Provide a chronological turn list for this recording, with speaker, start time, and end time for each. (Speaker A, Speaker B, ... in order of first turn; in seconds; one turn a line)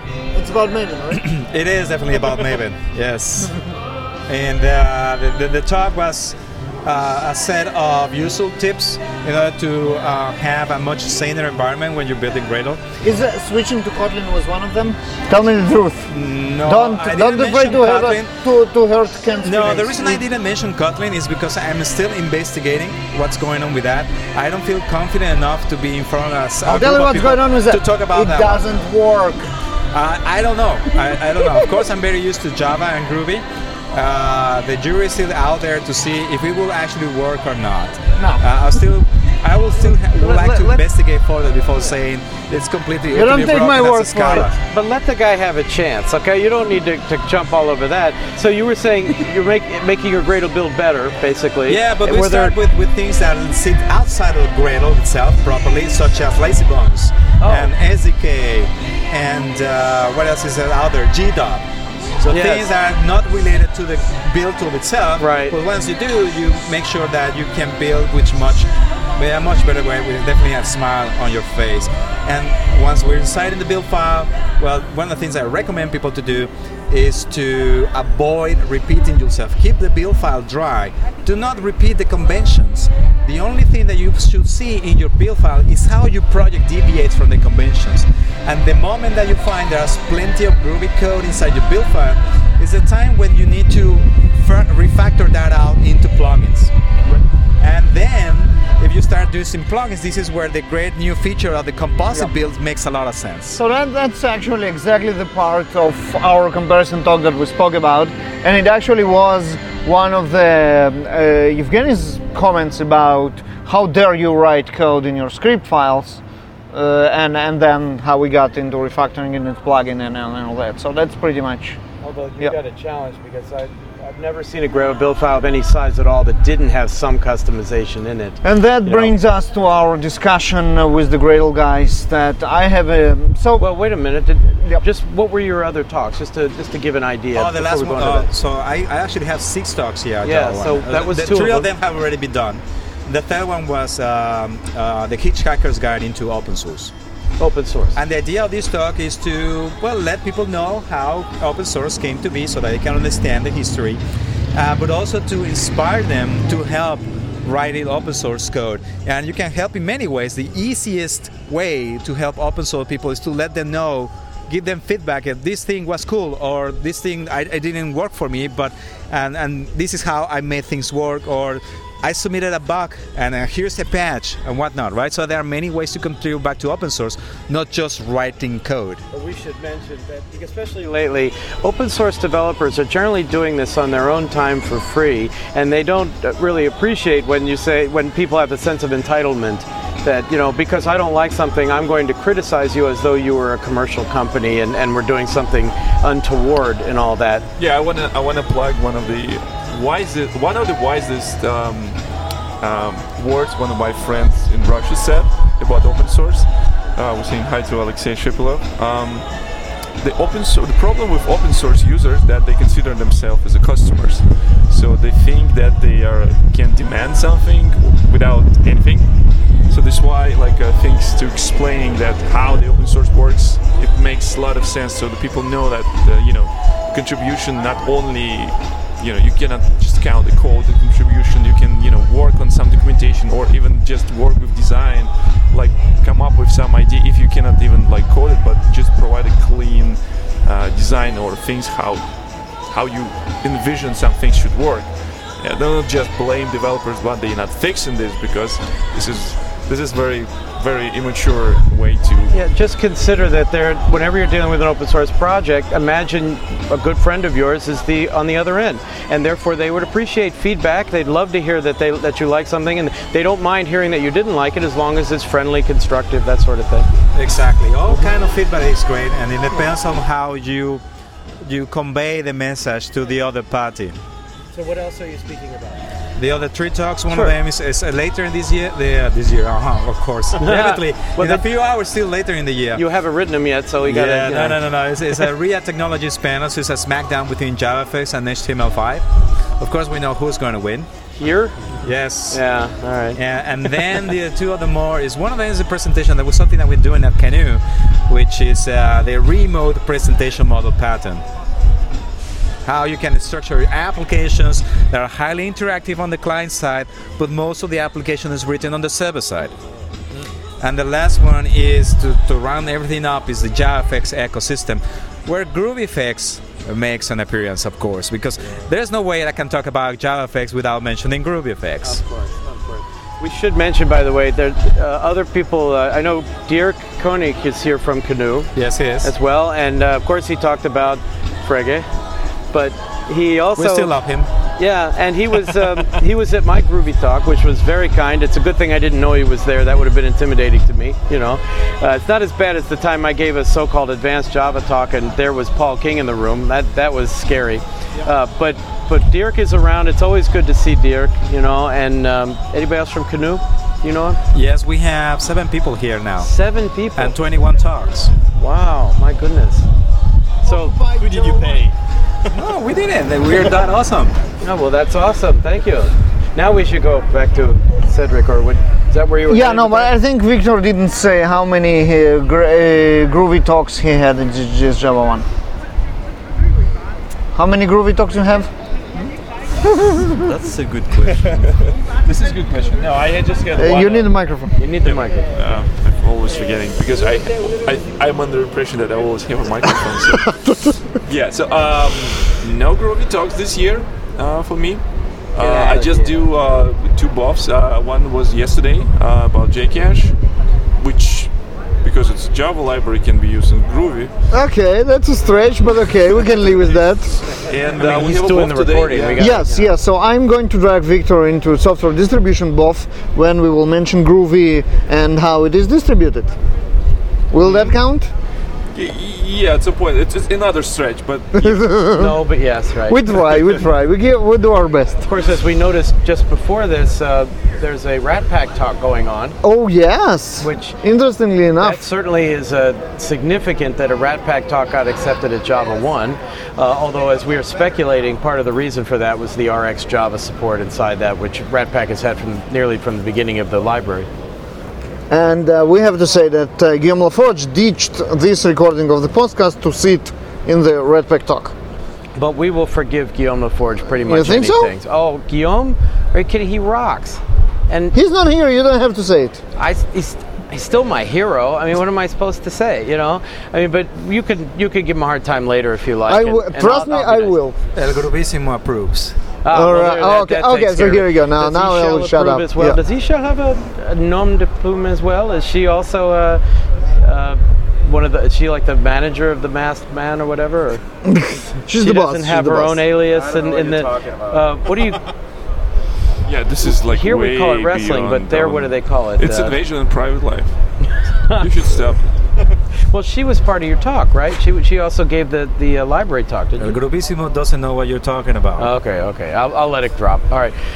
Speaker A: 0.3-1.2
Speaker B: 1.1-3.5
Speaker B: 4.3-12.8
Speaker A: 13.0-16.1
Speaker B: 16.1-18.3
Speaker A: 16.6-20.2
Speaker B: 19.4-28.6
Speaker A: 26.6-29.5
Speaker B: 29.9-44.5
Speaker A: 38.1-38.4
Speaker C: 40.1-40.8
Speaker A: 43.1-44.5
Speaker C: 44.5-52.5
Speaker B: 51.7-61.6
Speaker C: 57.4-57.7
Speaker B: 62.2-96.7
Speaker C: 62.3-62.7
Speaker C: 65.2-65.5
Speaker B: 97.6-103.6
Speaker A: 103.5-116.2
Speaker A: 116.7-121.8
Speaker C: 122.0-129.1
Speaker A: 128.4-133.7
Speaker C: 133.6-138.3
Speaker B: 137.3-146.9
Speaker C: 140.2-141.7
Speaker C: 147.4-148.0
Speaker B: 147.9-154.0
Speaker B: 154.5-179.0
Speaker C: 179.1-197.4
Speaker D: 197.6-202.0
Speaker D: 202.6-209.3
Speaker D: 210.0-219.1
Speaker D: 219.7-242.1
Speaker D: 242.7-252.3
Speaker C: 252.3-266.9
Speaker B: 267.1-270.8
Speaker B: 271.4-273.9
Speaker C: 274.5-275.8
Speaker B: 276.1-282.8
Speaker C: 277.1-277.4
Speaker C: 280.4-281.4
Speaker C: 282.7-284.6
Speaker B: 283.8-289.0
Speaker B: 289.6-290.9
Speaker C: 291.2-291.7
Speaker B: 291.8-292.4
Speaker C: 292.3-293.2
Speaker B: 293.1-301.2
Speaker B: 302.6-309.5
Speaker B: 310.6-322.0
Speaker C: 321.8-331.9
Speaker B: 328.5-329.1
Speaker C: 332.5-333.9
Speaker B: 333.6-334.3
Speaker C: 334.6-354.2
Speaker B: 354.3-356.3
Speaker C: 356.2-357.1
Speaker B: 356.9-358.1
Speaker C: 358.4-359.7
Speaker C: 360.4-360.8
Speaker A: 360.5-361.6
Speaker E: 360.9-361.7
Speaker B: 362.3-364.1
Speaker C: 364.4-369.9
Speaker A: 369.3-375.2
Speaker A: 377.3-378.5
Speaker A: 379.7-380.2
Speaker E: 380.1-381.4
Speaker D: 381.2-384.1
Speaker A: 383.5-384.5
Speaker C: 384.6-385.3
Speaker D: 384.8-390.2
Speaker A: 390.3-390.9
Speaker D: 391.0-394.8
Speaker D: 395.3-400.1
Speaker C: 395.4-396.1
Speaker D: 400.8-401.3
Speaker D: 401.8-404.1
Speaker A: 404.3-407.3
Speaker D: 407.3-409.4
Speaker C: 407.8-409.7
Speaker A: 409.1-416.3
Speaker A: 417.3-418.1
Speaker D: 418.7-421.7
Speaker A: 421.4-422.2
Speaker C: 421.9-423.0
Speaker A: 422.9-425.1
Speaker C: 425.0-429.4
Speaker A: 429.4-431.8
Speaker C: 430.4-430.8
Speaker C: 431.6-444.1
Speaker A: 445.1-451.5
Speaker C: 452.1-457.9
Speaker A: 454.0-454.7
Speaker A: 457.9-459.4
Speaker C: 459.6-467.4
Speaker A: 466.1-467.6
Speaker B: 467.7-469.1
Speaker C: 469.4-476.4
Speaker A: 469.5-472.8
Speaker C: 477.0-480.8
Speaker A: 481.1-482.8
Speaker C: 481.8-485.1
Speaker D: 486.2-490.6
Speaker C: 486.7-489.6
Speaker D: 491.3-492.0
Speaker C: 492.9-496.8
Speaker B: 496.6-498.7
Speaker C: 498.6-500.5